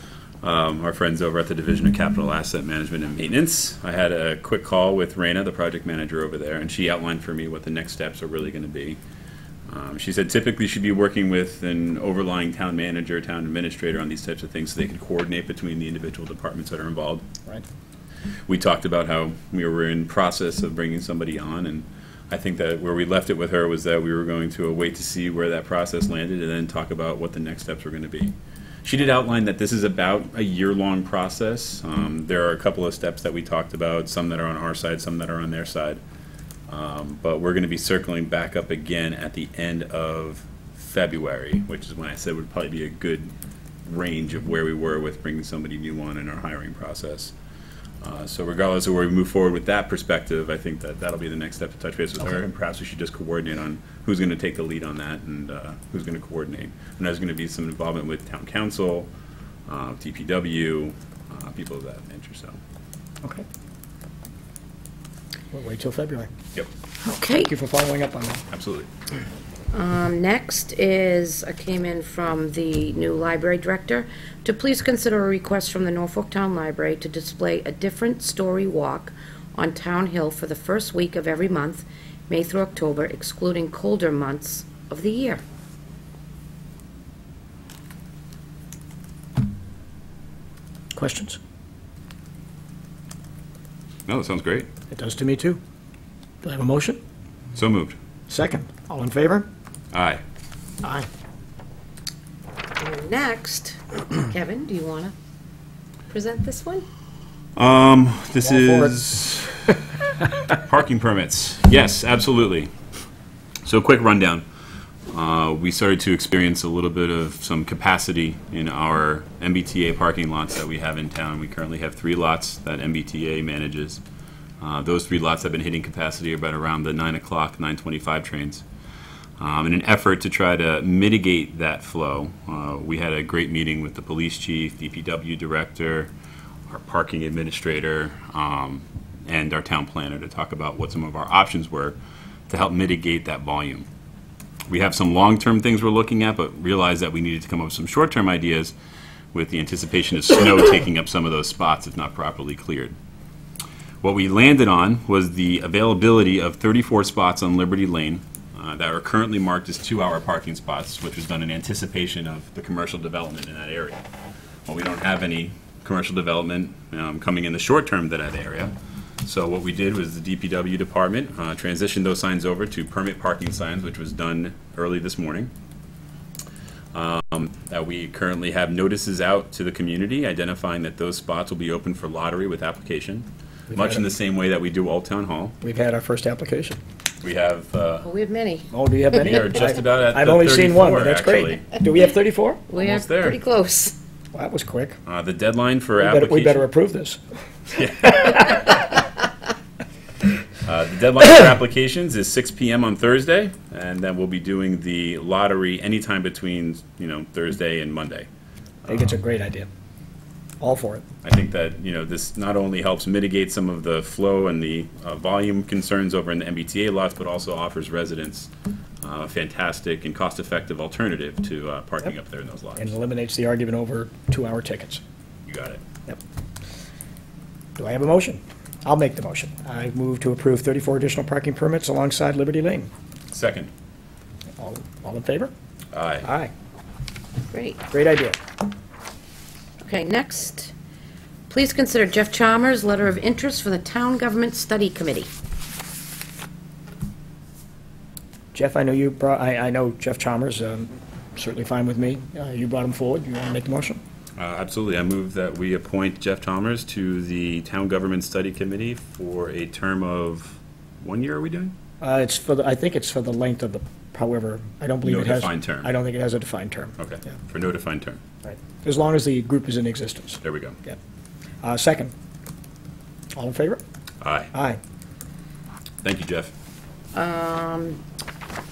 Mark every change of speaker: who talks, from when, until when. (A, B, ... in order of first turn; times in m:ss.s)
0:00.4-0:09.0 A
0:09.7-0:17.2 A
0:18.5-0:36.0 A
0:36.7-0:43.3 A
0:43.8-0:47.3 A
0:48.0-0:59.1 A
0:59.7-1:02.6 A
1:05.5-1:06.3 B
1:07.0-1:07.5 C
1:07.3-1:08.4 B
1:08.5-1:08.9 A
1:09.7-1:25.4 C
1:30.9-1:31.4 B
1:34.1-1:34.7 A
1:34.9-1:35.6 B
1:36.4-1:37.0 B
1:37.5-1:37.9 A
1:38.3-1:39.5 B
1:39.9-1:40.2 A
1:42.8-1:45.1 C
1:46.1-1:46.8 C
1:47.6-1:49.8 A
1:48.4-1:49.0 B
1:50.4-1:52.7 A
1:53.6-1:54.4 A
1:55.1-2:04.0 A
2:04.6-2:08.6 A
2:09.4-2:16.1 A
2:16.7-2:22.0 A
2:22.5-2:23.9 A
2:24.7-2:28.7 A
2:29.3-2:32.9 A
2:34.0-2:44.0 A
2:44.6-2:55.5 A
2:56.9-3:05.6 A
3:03.7-3:04.0 B
3:05.6-3:06.8 B
3:07.2-3:08.1 A
3:08.0-3:09.4 C
3:08.7-3:12.6 B
3:09.2-3:11.7 A
3:12.7-3:14.0 C
3:12.7-3:13.4 A
3:14.3-3:15.0 B
3:15.0-3:16.7 A
3:16.0-3:17.2 B
3:17.7-3:18.8 A
3:20.6-3:28.3 A
3:28.8-3:29.1 A
3:28.9-3:29.7 B
3:30.6-3:31.0 B
3:31.2-3:38.5 A
3:39.0-3:42.9 A
3:42.8-3:45.0 B
3:45.5-3:45.8 A
3:47.8-3:52.9 B
3:53.3-3:53.7 A
3:54.6-3:55.5 B
3:55.9-3:56.3 A
3:56.2-3:56.5 B
3:57.5-3:57.8 C
3:57.9-3:58.4 B
3:59.8-4:00.7 C
4:01.5-4:05.3 C
4:08.5-4:14.0 B
4:14.4-4:21.7 A
4:22.0-4:26.9 B
4:25.0-4:25.9 A
4:27.0-4:28.2 A
4:28.4-4:31.0 B
4:30.4-4:30.8 A
4:31.6-4:32.1 B
4:33.3-4:33.8 B
4:34.2-4:34.5 A
4:34.5-4:34.8 B
4:36.0-4:36.5 A
4:37.1-4:38.0 C